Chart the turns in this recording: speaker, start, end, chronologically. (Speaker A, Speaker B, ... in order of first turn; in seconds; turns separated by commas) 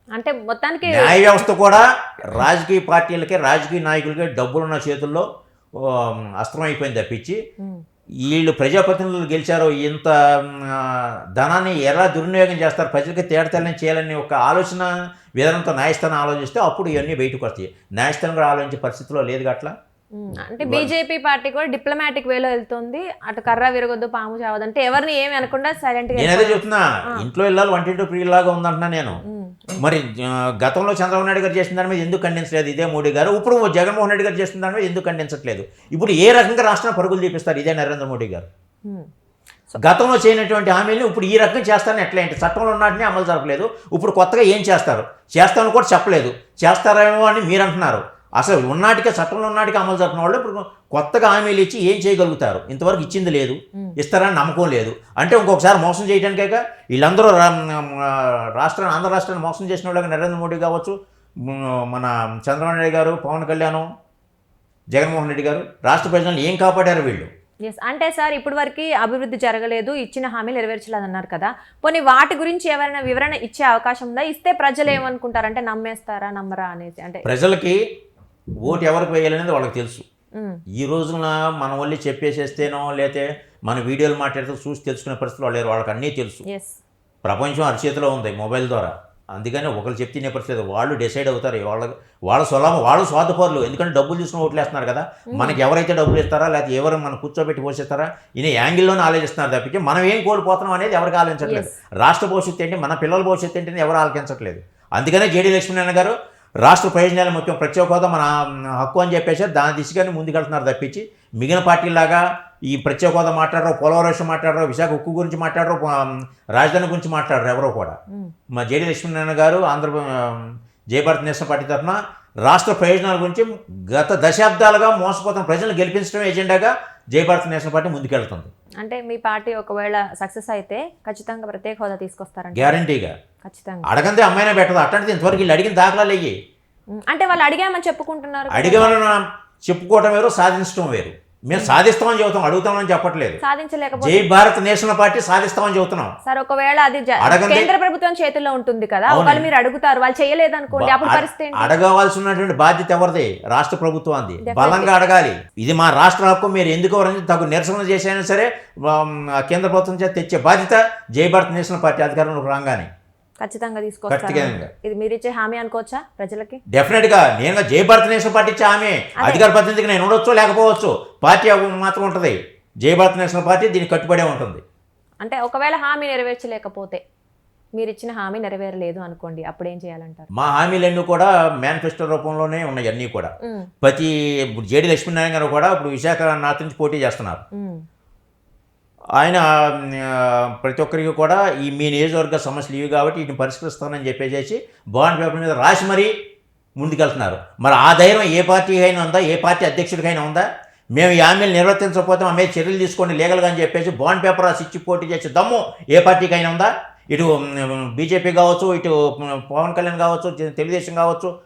Speaker A: 0.1-1.4, Speaker B: 0.8-7.4, Speaker B: 8.2-19.7, Speaker A: 20.2-27.3, Speaker B: 20.6-20.9, Speaker B: 26.1-29.2, Speaker A: 29.3-29.9, Speaker B: 29.8-38.5, Speaker B: 39.8-63.9, Speaker B: 64.9-67.3, Speaker A: 67.7-77.3, Speaker B: 77.2-77.8, Speaker B: 78.6-80.0, Speaker A: 80.4-80.6, Speaker B: 80.8-86.4, Speaker A: 86.5-86.8, Speaker B: 87.2-118.0, Speaker A: 95.3-95.6, Speaker A: 101.5-101.7, Speaker B: 118.5-128.5, Speaker A: 128.8-132.8, Speaker B: 132.5-133.2, Speaker A: 133.4-133.9, Speaker B: 133.8-136.3, Speaker A: 136.9-139.2, Speaker B: 138.5-143.4, Speaker A: 143.4-144.3, Speaker B: 144.0-146.1, Speaker A: 146.2-151.7, Speaker B: 147.2-147.7, Speaker B: 149.1-149.5, Speaker B: 150.7-162.9, Speaker A: 154.4-154.9, Speaker A: 163.4-166.6, Speaker B: 164.1-164.7, Speaker B: 166.7-174.6, Speaker A: 175.2-177.0, Speaker A: 177.8-180.3, Speaker B: 180.3-187.4, Speaker A: 183.4-183.7, Speaker A: 187.5-187.8, Speaker B: 189.2-196.1, Speaker B: 196.8-211.3